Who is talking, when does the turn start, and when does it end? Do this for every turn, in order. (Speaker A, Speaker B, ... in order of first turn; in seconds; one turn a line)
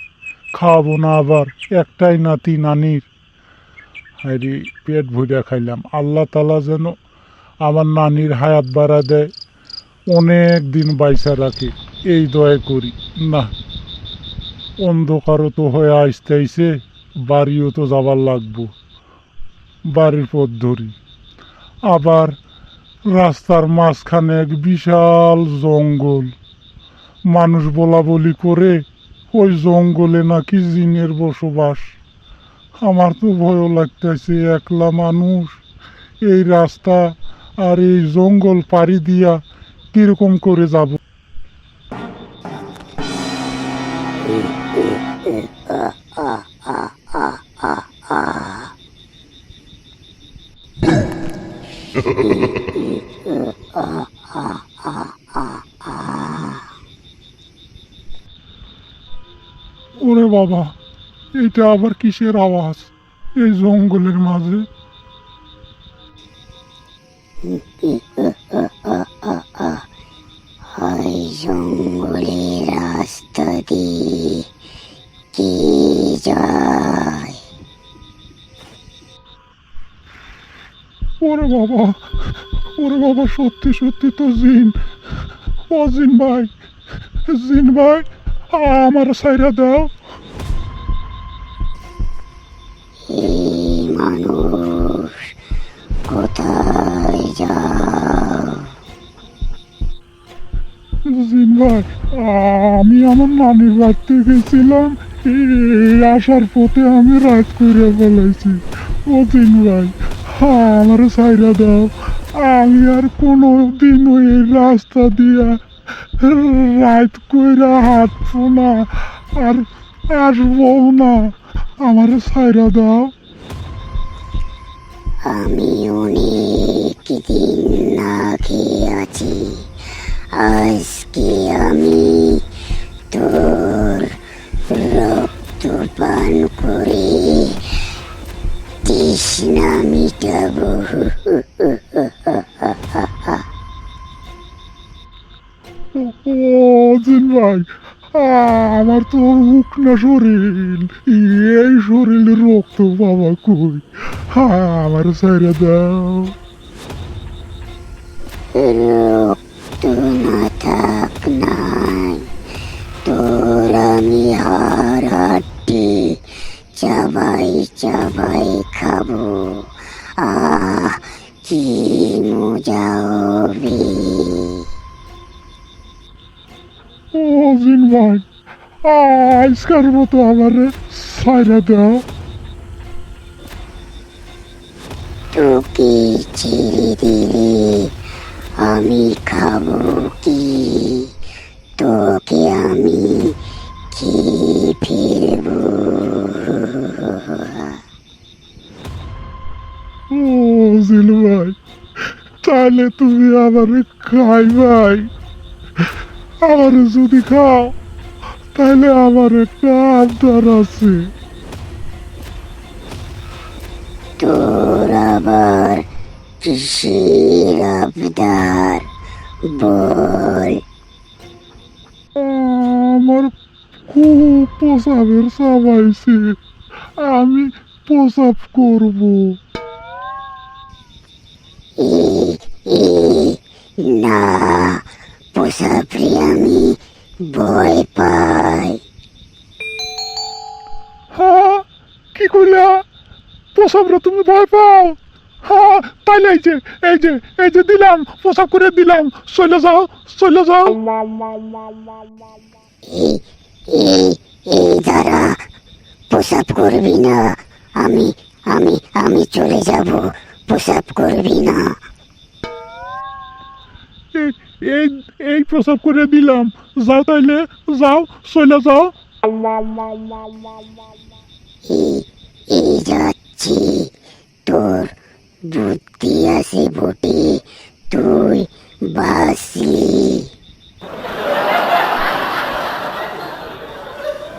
Speaker A: 0.5-3.1
Speaker A: 4.2-7.0
Speaker A: 7.6-9.3
Speaker A: 10.1-13.5
Speaker A: 14.8-18.7
Speaker A: 19.9-20.9
Speaker A: 21.9-22.4
Speaker A: 23.1-26.3
Speaker A: 27.3-31.9
Speaker A: 32.8-35.6
Speaker A: 36.2-39.4
Speaker A: 39.9-41.0
Speaker B: 44.7-48.7
Speaker B: 52.2-52.9
Speaker B: 53.8-56.6
Speaker A: 60.0-60.8
Speaker A: 61.3-64.7
Speaker B: 67.4-69.8
Speaker B: 70.7-74.5
Speaker B: 75.3-77.4
Speaker A: 81.2-84.8
Speaker A: 85.7-86.5
Speaker A: 87.3-89.9
Speaker B: 93.1-95.3
Speaker B: 96.0-98.7
Speaker A: 101.0-123.1
Speaker B: 125.2-129.7
Speaker B: 130.3-132.5
Speaker B: 133.1-137.8
Speaker B: 138.8-143.4
Speaker A: 145.9-156.3
Speaker B: 158.5-162.3
Speaker B: 163.0-174.7
Speaker A: 177.1-178.2
Speaker A: 178.8-182.0
Speaker B: 185.3-188.0
Speaker B: 188.5-191.2
Speaker B: 191.8-193.4
Speaker B: 193.9-197.8
Speaker A: 200.1-201.6
Speaker A: 202.4-205.1
Speaker A: 206.4-207.7
Speaker A: 208.5-211.1
Speaker B: 214.2-215.8
Speaker B: 216.4-218.9
Speaker B: 219.4-220.6
Speaker A: 222.2-223.3
Speaker A: 223.9-226.4
Speaker A: 227.0-229.4
Speaker B: 231.8-238.8
Speaker A: 241.1-242.8
Speaker A: 243.5-250.8
Speaker B: 252.8-255.4
Speaker B: 256.1-261.8
Speaker A: 264.1-268.9
Speaker B: 271.6-273.9
Speaker B: 274.4-280.3